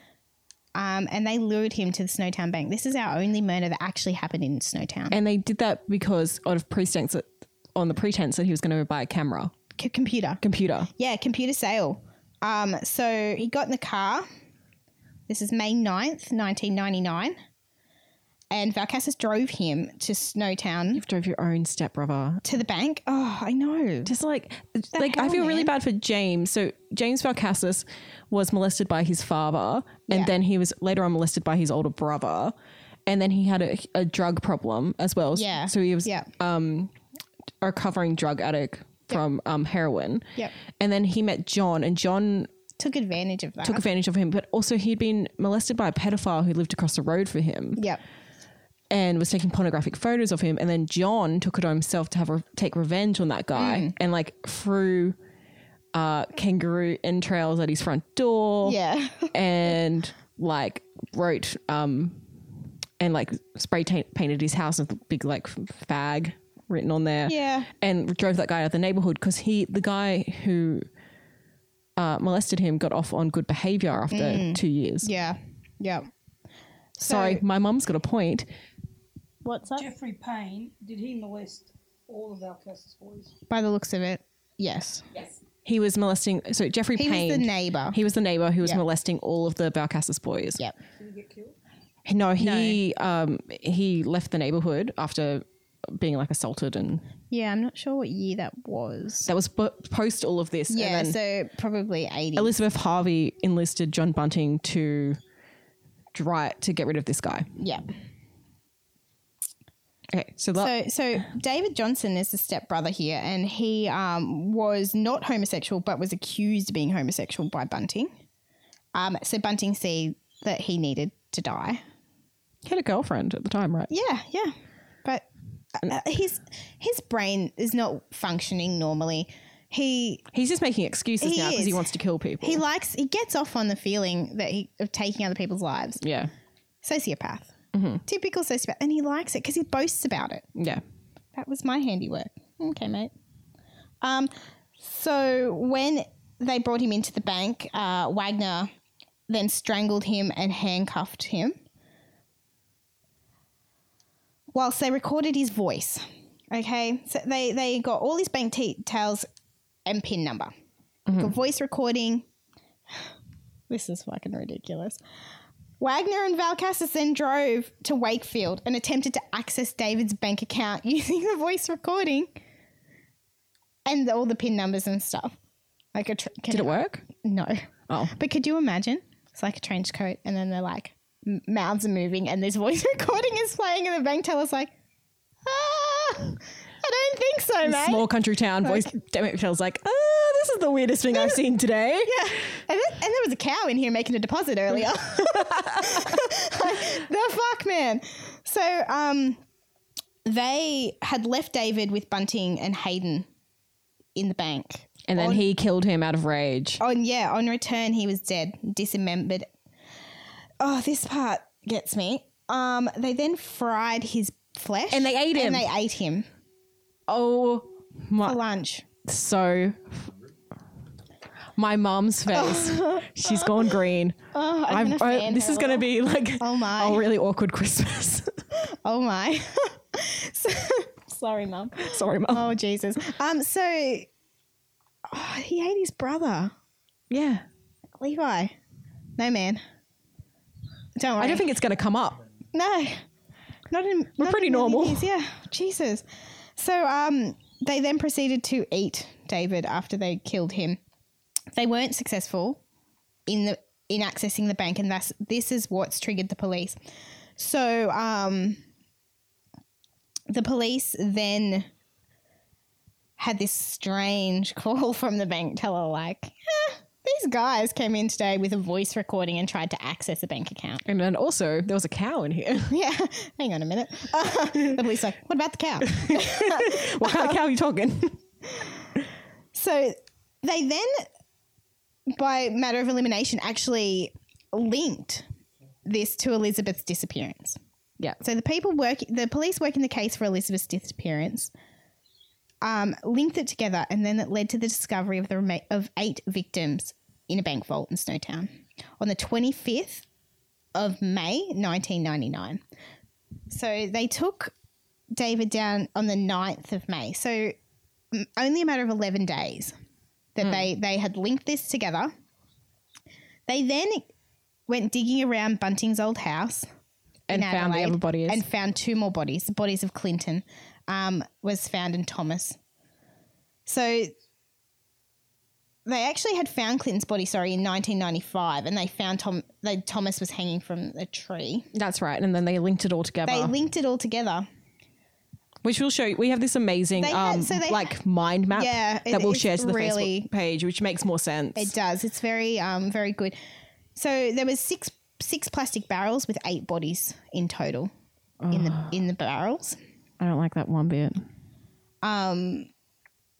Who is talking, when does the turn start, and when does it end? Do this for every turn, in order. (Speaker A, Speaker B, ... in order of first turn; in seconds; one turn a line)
Speaker A: 0.7-5.2
Speaker B: 5.1-9.5
Speaker A: 9.8-10.4
Speaker B: 10.4-10.9
Speaker A: 10.9-14.2
Speaker A: 15.3-17.4
Speaker A: 18.5-21.0
Speaker B: 20.9-22.4
Speaker A: 22.4-24.1
Speaker B: 24.1-32.5
Speaker A: 24.9-25.7
Speaker B: 33.0-36.9
Speaker A: 35.3-36.3
Speaker B: 37.6-42.5
Speaker A: 42.8-43.8
Speaker B: 43.6-47.8
Speaker B: 48.9-55.1
Speaker A: 53.5-53.9
Speaker B: 55.9-58.8
Speaker A: 58.6-59.3
Speaker B: 59.3-62.2
Speaker B: 63.0-70.8
Speaker A: 67.3-67.7
Speaker B: 72.0-75.1
Speaker A: 74.1-76.1
Speaker A: 77.0-77.4
Speaker B: 77.0-78.5
Speaker A: 79.4-79.9
Speaker C: 79.8-83.3
Speaker A: 83.5-85.0
Speaker B: 85.6-90.6
Speaker A: 87.0-88.0
Speaker C: 91.0-91.5
Speaker B: 92.0-97.0
Speaker A: 92.4-92.8
Speaker A: 97.3-99.3
Speaker B: 99.3-101.2
Speaker A: 100.7-102.5
Speaker B: 102.3-105.2
Speaker B: 106.1-107.5
Speaker A: 107.6-107.8
Speaker B: 110.1-110.7
Speaker A: 110.6-118.1
Speaker A: 118.9-121.8
Speaker B: 122.6-123.9
Speaker A: 123.9-130.2
Speaker B: 130.3-132.6
Speaker A: 131.2-131.9
Speaker A: 132.4-136.0
Speaker B: 136.0-136.3
Speaker A: 136.8-137.5
Speaker B: 137.7-138.0
Speaker A: 138.1-140.4
Speaker B: 140.6-140.8
Speaker A: 141.3-143.1
Speaker A: 144.0-148.7
Speaker A: 149.3-151.6
Speaker A: 154.5-159.2
Speaker A: 159.8-160.5
Speaker A: 161.1-162.2
Speaker A: 163.7-165.0
Speaker A: 165.8-172.3
Speaker A: 173.8-175.3
Speaker A: 175.9-184.7
Speaker B: 176.5-177.0
Speaker A: 185.4-188.1
Speaker B: 187.6-192.2
Speaker A: 188.6-188.9
Speaker A: 191.1-191.4
Speaker A: 192.0-199.4
Speaker B: 195.3-196.1
Speaker A: 200.2-203.2
Speaker A: 204.2-205.4
Speaker B: 205.1-206.8
Speaker A: 206.8-209.5
Speaker A: 210.6-216.2
Speaker B: 214.9-215.7
Speaker B: 217.1-218.4
Speaker A: 218.2-218.8
Speaker B: 219.0-220.1
Speaker B: 221.6-224.2
Speaker A: 222.3-223.8
Speaker A: 224.3-225.9
Speaker B: 224.7-228.3
Speaker A: 226.4-227.0
Speaker A: 228.8-234.1
Speaker B: 231.8-232.5
Speaker A: 235.1-236.5
Speaker B: 237.1-237.4
Speaker A: 238.0-238.5
Speaker A: 239.2-239.6
Speaker A: 240.9-241.5
Speaker B: 241.2-242.2
Speaker A: 242.5-243.0
Speaker A: 243.7-246.0
Speaker B: 244.2-245.1
Speaker A: 246.6-250.8
Speaker A: 251.5-252.6
Speaker A: 253.3-256.8
Speaker A: 257.4-258.6
Speaker A: 260.3-261.7
Speaker A: 263.2-270.8
Speaker B: 270.8-272.7
Speaker A: 272.7-277.4
Speaker B: 275.9-278.2
Speaker A: 279.5-281.1
Speaker A: 282.1-285.2
Speaker A: 285.8-287.6
Speaker A: 288.2-291.5
Speaker A: 292.6-300.1
Speaker A: 300.7-302.6
Speaker A: 303.5-304.5
Speaker A: 305.1-307.5
Speaker A: 308.1-309.7
Speaker A: 310.3-312.1
Speaker A: 313.5-314.1
Speaker A: 314.7-316.6
Speaker B: 317.3-318.4
Speaker A: 317.3-322.6
Speaker A: 323.6-324.1
Speaker A: 325.9-331.7
Speaker B: 331.7-333.5
Speaker A: 333.2-334.4
Speaker B: 335.6-341.7
Speaker A: 337.0-337.9
Speaker A: 338.5-340.3
Speaker A: 341.6-343.4
Speaker A: 343.9-347.9
Speaker B: 348.4-348.9
Speaker A: 348.5-349.8
Speaker B: 350.2-351.3
Speaker A: 352.0-352.7